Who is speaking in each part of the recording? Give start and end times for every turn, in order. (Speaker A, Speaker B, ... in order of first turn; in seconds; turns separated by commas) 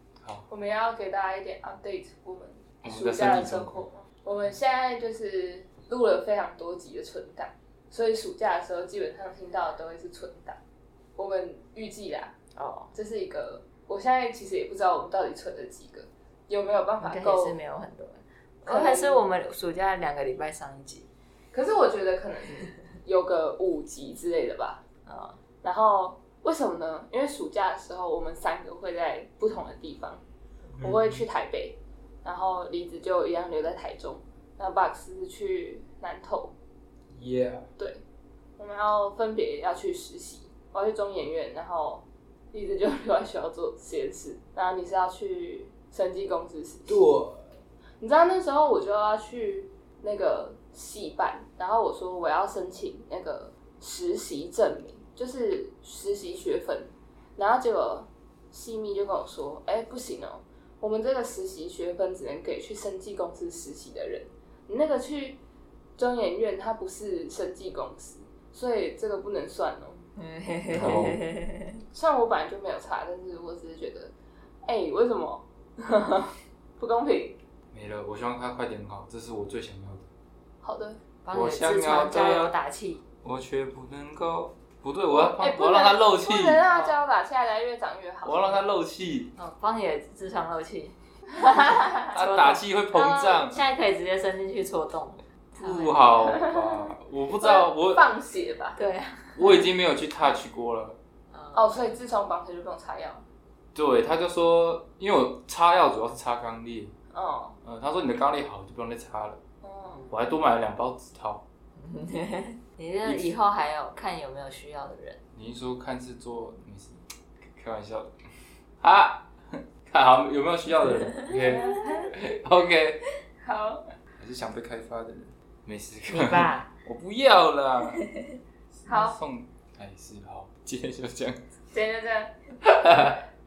Speaker A: 0.5-10.6, Speaker B: 2.8-3.9, Speaker A: 11.2-12.3, Speaker C: 12.6-12.9, Speaker A: 12.9-17.6, Speaker C: 17.0-21.1, Speaker A: 18.7-19.3, Speaker A: 21.5-24.8, Speaker C: 25.1-25.4, Speaker A: 25.6-30.2, Speaker B: 30.8-31.2, Speaker A: 30.8-36.5, Speaker B: 37.1-37.7, Speaker A: 38.6-47.0, Speaker B: 46.9-47.5, Speaker A: 48.0-65.4, Speaker A: 66.0-70.0, Speaker C: 70.2-71.8, Speaker B: 70.7-71.2, Speaker A: 71.9-74.1, Speaker A: 74.7-77.4, Speaker B: 77.7-80.1, Speaker A: 80.6-81.0, Speaker C: 81.2-83.0, Speaker B: 81.3-82.5, Speaker B: 83.2-86.6, Speaker A: 85.1-88.6, Speaker C: 86.7-87.0, Speaker B: 88.2-89.3, Speaker C: 89.4-96.4, Speaker A: 91.3-91.7, Speaker B: 92.1-93.7, Speaker B: 95.6-98.1, Speaker A: 96.3-98.8, Speaker C: 98.8-99.5, Speaker B: 99.4-101.0, Speaker C: 101.3-102.0, Speaker A: 101.5-103.2, Speaker B: 103.8-106.9, Speaker A: 107.1-107.6, Speaker B: 107.6-109.4, Speaker A: 109.6-110.0, Speaker C: 109.9-110.2, Speaker B: 110.1-111.4, Speaker C: 111.8-115.2, Speaker B: 113.0-113.4, Speaker B: 115.3-118.2, Speaker B: 118.8-123.1, Speaker A: 123.4-123.8, Speaker B: 124.2-128.0, Speaker C: 126.1-126.7, Speaker C: 127.9-128.4, Speaker B: 128.8-131.4, Speaker A: 128.9-129.2, Speaker A: 131.7-132.4, Speaker B: 132.6-133.2